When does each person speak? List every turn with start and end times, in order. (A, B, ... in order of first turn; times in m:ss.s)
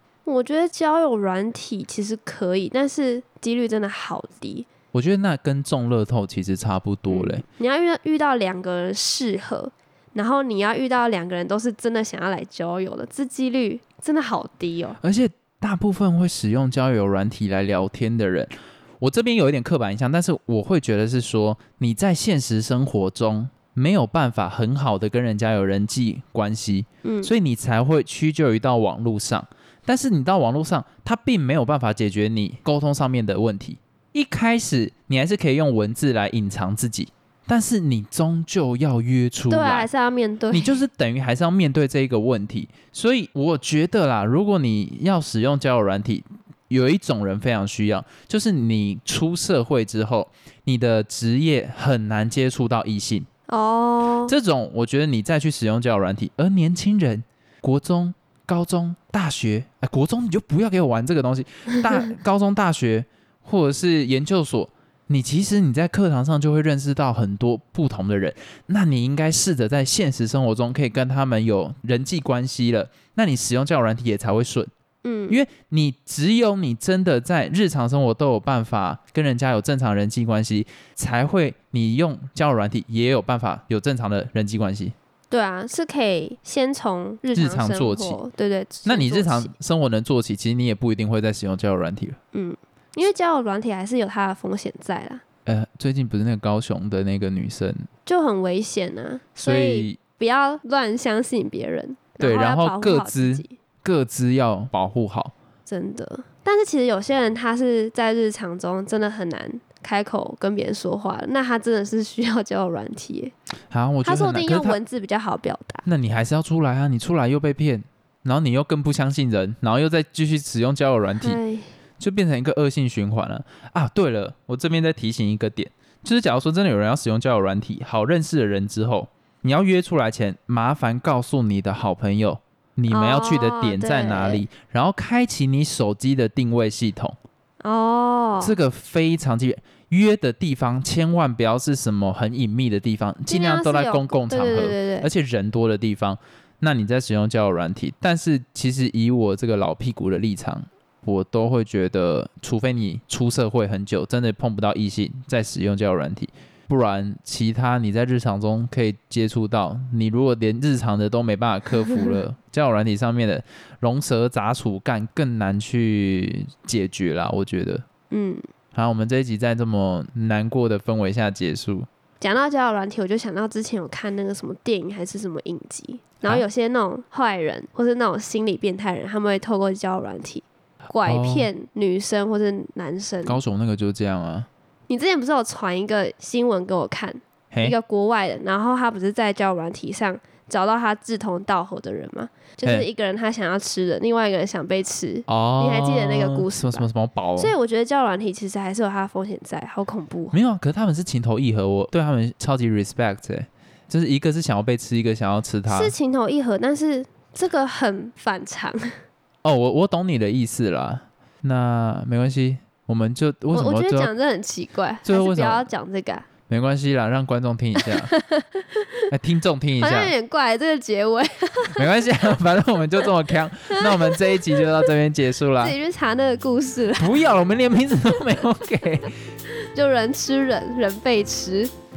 0:00.3-0:04.7 A
0:04.9-0:07.4 B
0:07.1-0:15.0 A
0:15.0-0:39.9 B
0:27.0-0:27.3 A
0:39.5-0:40.8 A
0:40.5-0:53.3 B
0:53.5-0:54.3 A
0:54.3-1:14.7 B
1:15.0-1:15.4 A
1:15.3-1:25.0 B
1:25.3-1:29.5 A
1:27.4-1:28.2 B
1:28.8-1:32.2 B
1:32.3-1:35.2 A
1:35.5-1:37.9 B
1:38.1-1:43.5 A
1:39.4-1:40.0 B
1:42.2-1:45.3 B
1:45.7-1:53.3 A
1:53.7-1:54.8 B
1:54.0-1:55.8 A
1:55.8-2:01.4 B
2:01.2-2:01.7 A
2:02.0-2:17.2 B
2:12.9-2:14.4 A
2:17.6-2:18.6 A
2:18.4-2:47.8 B
2:23.3-2:25.1 A
2:48.1-2:48.5 A
2:48.7-2:51.9 B
2:52.2-3:03.4 A
3:01.0-3:01.5 B
3:03.2-3:04.5 B
3:04.9-3:16.8 A
3:15.3-3:17.5 B
3:17.4-3:20.4 A
3:20.3-3:25.9 B
3:25.7-3:29.0 A
3:29.4-3:34.1 B
3:33.5-3:36.3 A
3:35.0-3:35.7 B
3:36.5-3:38.1 B
3:37.8-3:39.1 A
3:39.1-3:40.1 B
3:39.8-3:41.9 A
3:41.8-3:45.8 B
3:43.7-3:44.9 A
3:45.6-3:47.2 A
3:47.0-3:49.2 B
3:49.5-3:51.7 A